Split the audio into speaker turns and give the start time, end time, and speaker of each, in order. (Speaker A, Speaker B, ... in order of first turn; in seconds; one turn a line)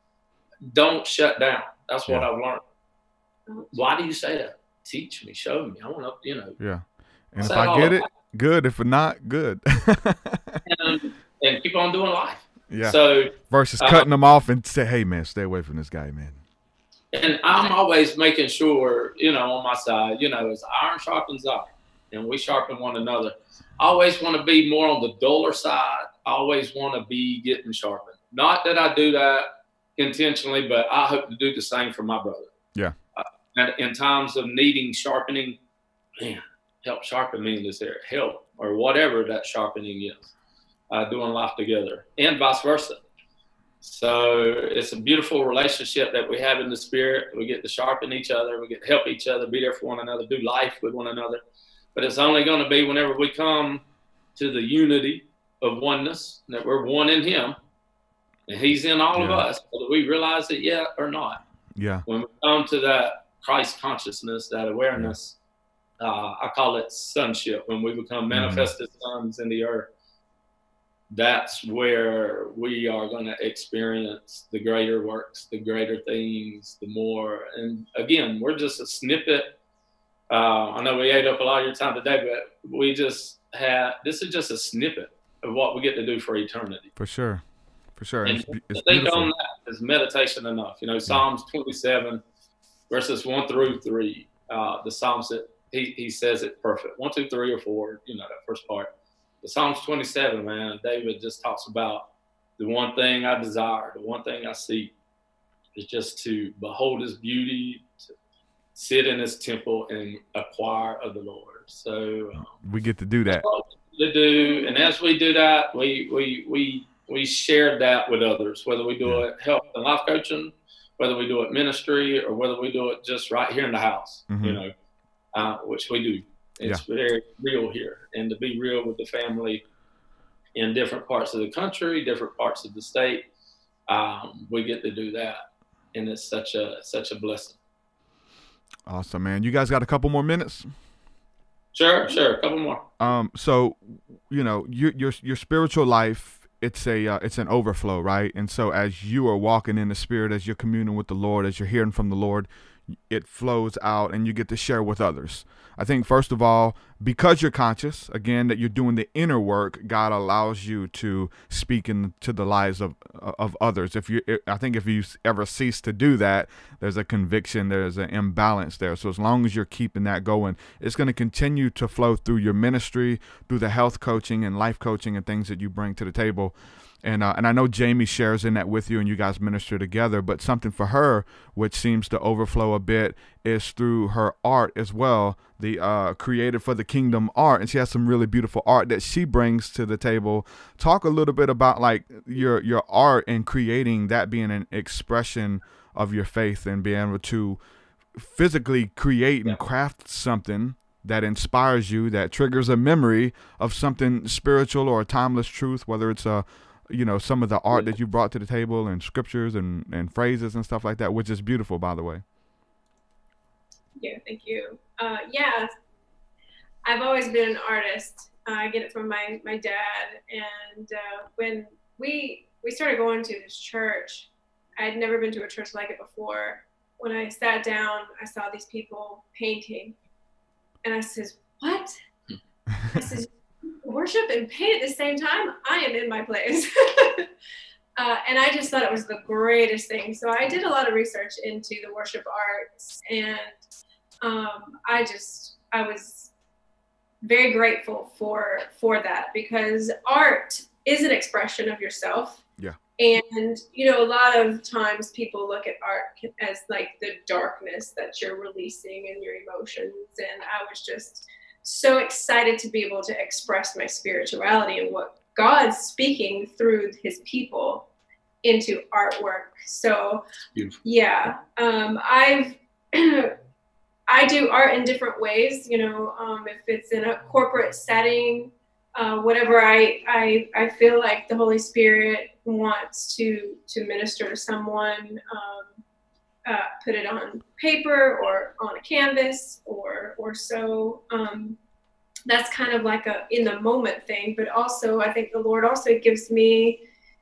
Speaker A: 0.7-2.6
Speaker B: 3.5-3.7
Speaker A: 3.7-6.6
Speaker C: 6.6-10.6
Speaker A: 7.4-8.1
Speaker A: 10.7-14.1
Speaker C: 12.7-16.4
Speaker A: 17.1-32.5
Speaker A: 33.2-35.6
Speaker A: 36.2-40.3
Speaker A: 40.9-43.0
Speaker A: 43.8-51.4
Speaker A: 52.0-53.8
Speaker A: 54.4-57.6
Speaker A: 58.5-61.4
Speaker C: 59.1-59.5
Speaker C: 61.8-62.0
Speaker A: 62.1-65.4
Speaker A: 66.0-69.9
Speaker C: 68.3-68.7
Speaker A: 71.1-79.5
Speaker A: 80.3-86.9
Speaker C: 87.0-87.4
Speaker C: 88.0-89.3
Speaker A: 88.3-92.2
Speaker A: 92.9-98.9
Speaker A: 99.4-102.1
Speaker A: 102.6-104.9
Speaker A: 105.8-107.9
Speaker A: 108.7-112.5
Speaker C: 112.6-113.5
Speaker A: 113.3-124.7
Speaker C: 124.3-124.6
Speaker A: 125.3-129.6
Speaker A: 130.6-133.3
Speaker A: 133.9-135.4
Speaker A: 135.9-137.6
Speaker C: 138.9-140.7
Speaker A: 141.7-142.8
Speaker C: 143.0-152.5
Speaker C: 153.1-197.6
Speaker C: 198.2-212.2
Speaker B: 214.0-215.7
Speaker B: 216.8-229.9
Speaker B: 230.8-231.9
Speaker B: 232.9-233.3
Speaker B: 233.8-237.3
Speaker B: 238.0-243.6
Speaker B: 244.2-246.3
Speaker B: 247.3-252.4
Speaker B: 253.0-267.9
Speaker B: 268.4-270.2
Speaker A: 270.6-270.8
Speaker B: 270.8-273.3
Speaker B: 274.1-285.8
Speaker B: 286.5-291.6
Speaker B: 292.3-296.8